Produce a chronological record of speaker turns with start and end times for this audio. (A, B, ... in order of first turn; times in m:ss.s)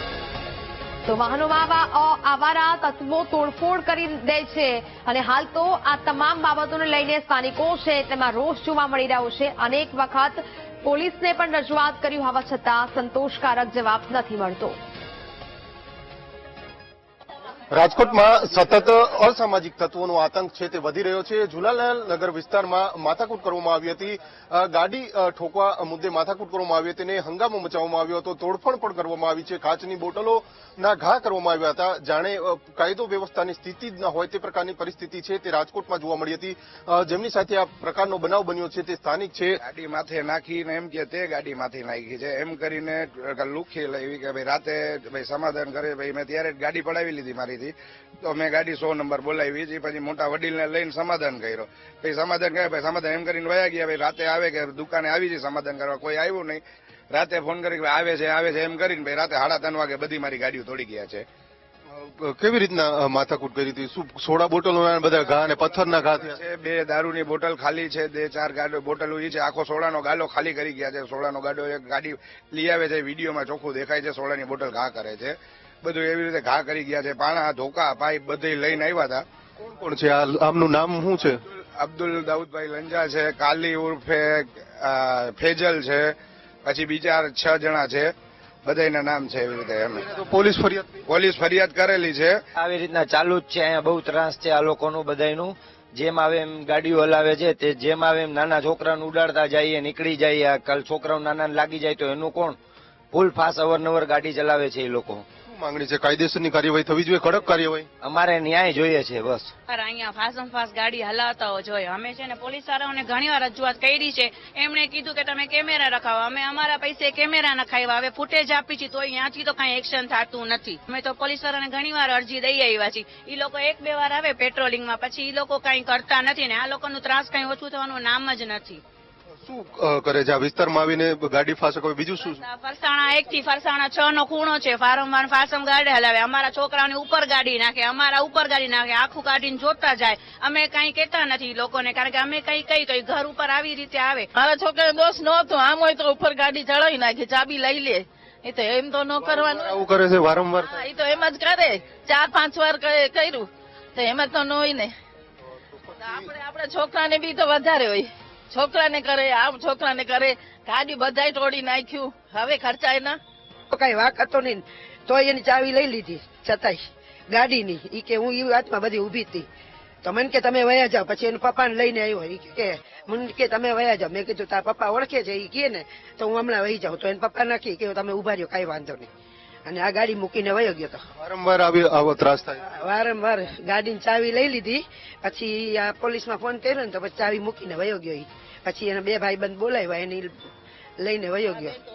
0:01.0-0:14.8 A
0:17.7-0:39.6 B
0:39.6-1:01.2 C
1:01.9-1:06.4 B
1:06.1-1:19.2 C
1:19.6-1:21.4 B
1:21.5-1:28.1 C
1:28.6-1:30.1 C
1:30.0-1:31.0 B
1:31.1-1:32.4 C
1:32.6-1:42.6 D
1:43.1-1:45.2 D
1:45.5-1:47.9 B
1:48.0-1:49.5 D
1:49.7-2:08.8 E
2:09.4-2:12.4 B
2:12.2-2:24.3 E
2:24.3-2:29.8 F
2:29.2-2:30.9 B
2:30.6-2:34.9 F
2:36.0-2:36.2 B
2:36.0-2:43.2 F
2:43.7-2:46.8 G
2:47.3-2:49.4 G
2:50.0-2:59.1 G
2:59.6-3:01.0 G
3:01.2-3:02.6 B
3:02.6-3:10.3 G
3:11.0-3:11.7 G